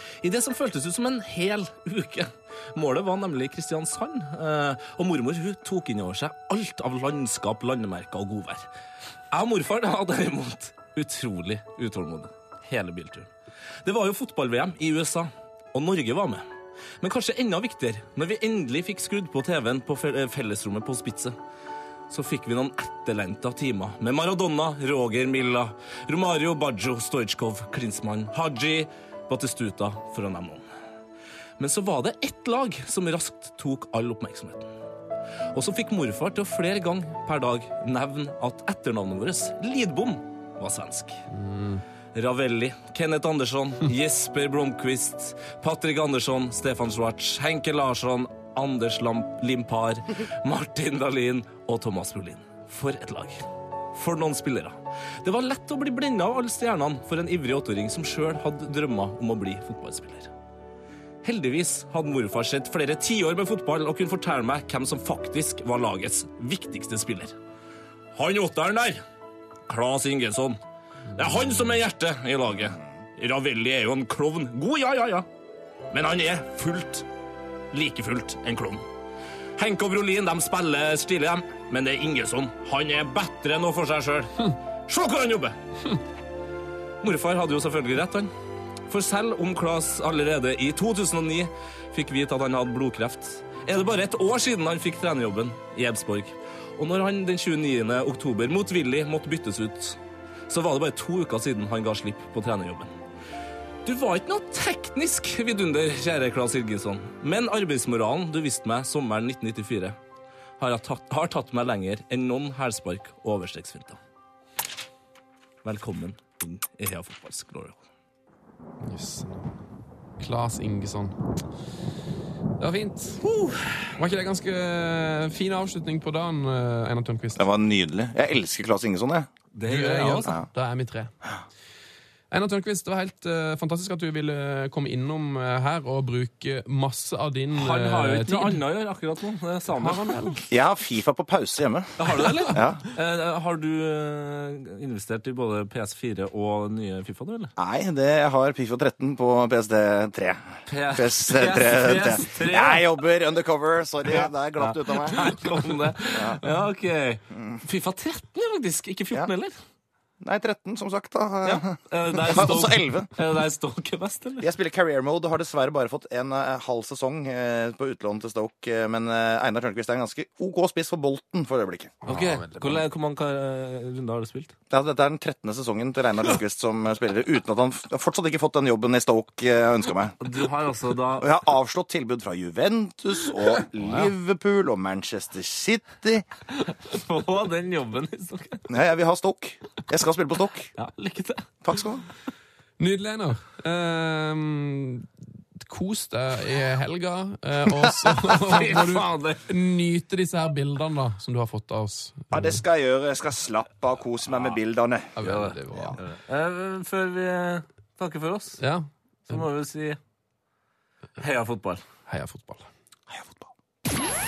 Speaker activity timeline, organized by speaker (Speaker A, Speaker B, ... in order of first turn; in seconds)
Speaker A: 0.2-8.7, 9.3-13.3, 13.8-16.4, 17.0-21.4, 22.1-30.6, 31.6-34.7, 35.5-41.2, 42.1-60.3, 61.2-67.3, 68.1-69.0, 69.7-70.6, 71.1-75.3, 75.9-77.0, 77.7-78.8, 79.6-85.5, 87.0-88.3, 88.9-102.9, 103.8-110.0, 110.6-114.0, 115.6-117.8, 123.3-123.7, 129.5-130.4, 137.5-140.2, 142.0-147.5, 150.7-153.0, 154.1-159.5, 161.4-164.5, 172.1-174.5, 180.2-181.3, 183.8-184.1, 186.6-188.6, 190.8-191.5, 198.2-199.4, 205.2-208.6, 209.3-210.0, 211.2-211.8
Speaker B: 41.3-41.8, 118.8-119.5, 120.2-121.1, 122.6-123.3, 124.0-127.4, 129.7-131.1, 132.3-138.6, 139.7-140.4, 172.0-172.8, 192.8-202.6, 205.2-206.0, 208.6-209.4, 212.1-212.7
Speaker C: 127.3-129.3, 130.2-130.4, 140.5-141.9, 142.5-142.8, 147.6-150.4, 150.9-155.5, 156.1-156.4, 160.2-163.1, 164.4-172.0, 174.7-180.2, 181.2-186.2, 188.7-190.7, 191.6-192.0, 202.3-205.1, 213.1-213.5